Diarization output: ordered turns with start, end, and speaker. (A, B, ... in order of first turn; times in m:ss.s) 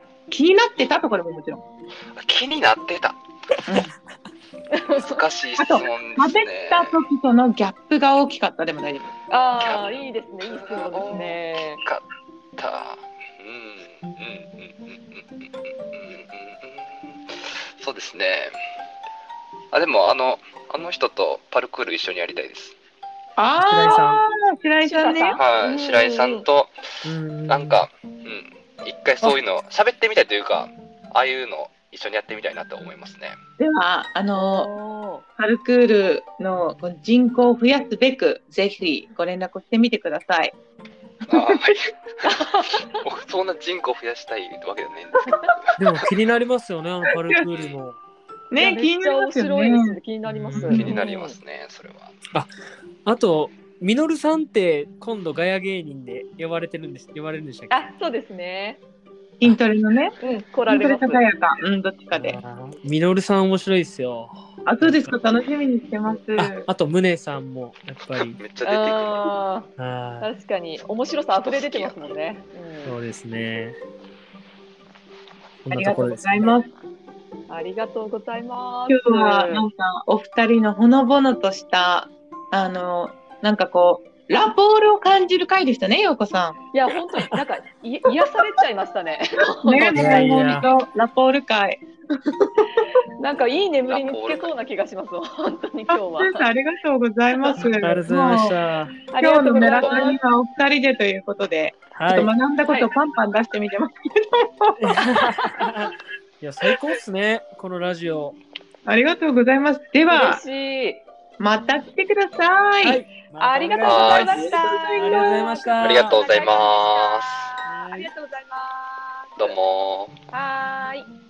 0:00.3-0:01.6 A
0:02.2-0:03.2 B
0:03.6-0:03.9 A
0:04.7-0:05.2 C
0:04.9-0:07.0 B
0:05.6-0:09.1 A
0:09.3-0:11.8 C
0:09.6-0:12.0 B
0:12.6-0:18.5 B
0:19.7-0:22.7 B
0:23.4-0:25.4 A
0:23.6-0:24.2 D
0:24.8-0:26.4 C
0:25.3-0:26.7 B
0:27.0-0:27.8 D
0:27.5-0:33.4 B
0:33.6-0:34.7 A
0:34.4-0:35.2 C
0:35.4-0:40.5 A
0:41.3-0:42.3 B
0:42.2-0:42.8 C
0:42.9-0:45.8 B
0:45.8-0:48.0 D
0:47.1-0:47.4 A
0:48.5-0:50.0 A
0:48.6-0:51.4 C
0:50.2-0:50.9 D
0:50.6-0:52.1 B
0:53.0-0:57.9 D
0:57.7-0:58.8 C
0:59.4-1:00.2 A
1:00.2-1:01.3 C
1:00.7-1:02.4 A
1:02.1-1:05.2 D
1:04.6-1:06.7 A
1:06.4-1:08.4 D
1:08.4-1:09.3 B
1:08.6-1:09.7 C
1:09.8-1:10.3 D
1:10.2-1:13.0 C
1:11.3-1:12.0 B
1:12.8-1:13.8 D
1:15.6-1:16.6 D
1:15.7-1:16.7 A
1:17.5-1:19.6 C
1:18.9-1:26.6 A
1:26.7-1:30.2 C
1:29.6-1:31.8 A
1:29.9-1:30.7 D
1:33.2-1:36.4 C
1:33.9-1:34.5 B
1:35.9-1:38.5 A
1:37.8-1:38.9 D
1:39.1-1:40.2 C
1:39.2-1:44.9 A
1:39.6-1:40.0 B
1:41.9-1:42.3 D
1:44.8-1:48.4 D
1:48.8-1:50.4 A
1:50.1-1:51.0 C
1:51.4-1:53.0 A
1:52.8-1:56.2 D
1:53.4-1:59.5 C
1:53.8-1:54.3 B
1:54.2-1:55.5 A
1:55.8-1:57.5 B
1:57.6-1:58.1 D
1:59.4-2:00.1 B
2:00.3-2:01.0 C